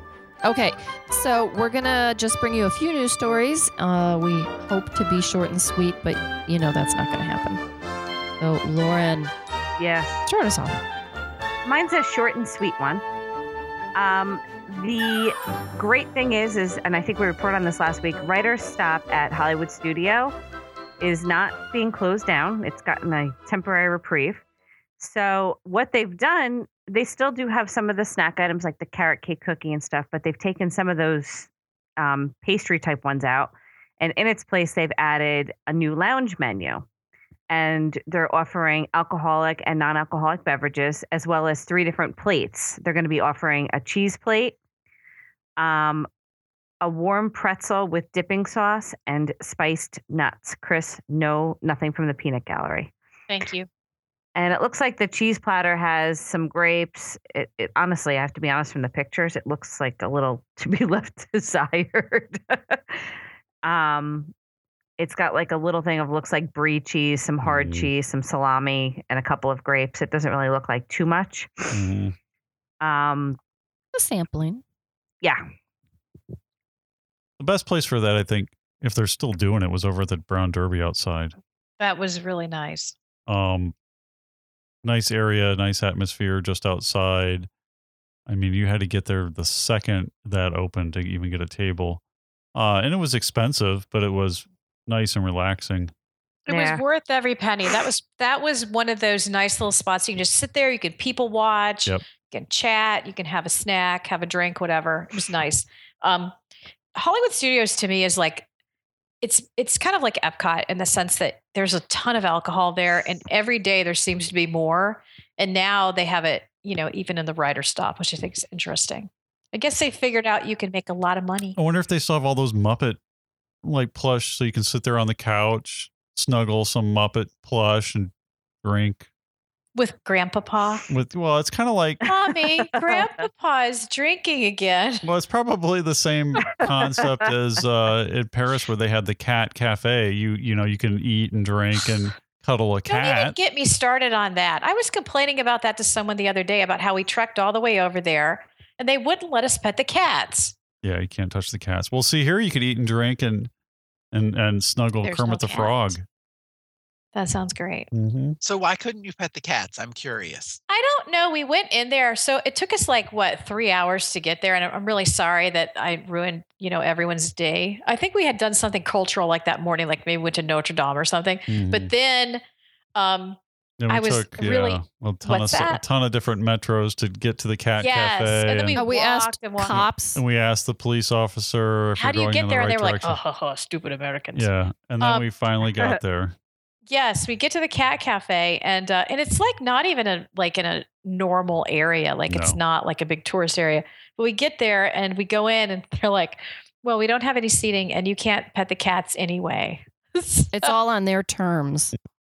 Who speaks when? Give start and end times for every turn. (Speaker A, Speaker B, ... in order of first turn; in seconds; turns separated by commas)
Speaker A: 0.4-7.6, Speaker A: 8.4-9.3, Speaker B: 9.8-10.2, Speaker A: 10.3-10.8, Speaker B: 11.7-13.0, Speaker B: 13.9-20.4, Speaker B: 21.0-24.4, Speaker B: 25.0-31.5, Speaker B: 32.0-36.9, Speaker B: 37.5-44.6, Speaker B: 45.6-46.1, Speaker B: 46.8-52.9, Speaker C: 53.3-53.7, Speaker B: 54.4-63.0, Speaker B: 63.6-64.3, Speaker B: 65.0-71.7, Speaker D: 67.4-67.9, Speaker D: 71.7-72.2, Speaker B: 72.8-73.4, Speaker A: 73.9-74.6, Speaker D: 77.4-81.3, Speaker C: 81.8-83.0, Speaker D: 83.3-83.7, Speaker D: 84.8-87.5, Speaker D: 88.3-92.0, Speaker D: 92.5-95.9, Speaker C: 96.5-106.4, Speaker B: 96.5-96.8, Speaker C: 107.0-108.5, Speaker C: 109.2-121.6, Speaker D: 121.6-123.0, Speaker D: 123.6-128.1, Speaker D: 128.6-129.1, Speaker C: 129.8-130.8, Speaker D: 130.9-132.0, Speaker B: 132.1-133.1, Speaker C: 132.1-135.0, Speaker D: 135.1-143.4, Speaker B: 136.4-137.2, Speaker C: 142.9-150.6, Speaker D: 150.8-153.5, Speaker D: 154.1-156.1, Speaker C: 155.0-155.9, Speaker C: 157.1-157.9, Speaker D: 157.9-158.4, Speaker E: 158.4-160.6, Speaker C: 160.7-172.4, Speaker D: 171.5-171.9, Speaker C: 173.0-175.8, Speaker D: 173.8-178.8, Speaker C: 177.8-179.8, Speaker A: 178.7-180.2, Speaker D: 179.6-183.2, Speaker C: 182.0-185.3, Speaker D: 184.3-186.4, Speaker C: 186.9-200.8, Speaker D: 192.3-192.6, Speaker A: 200.5-201.9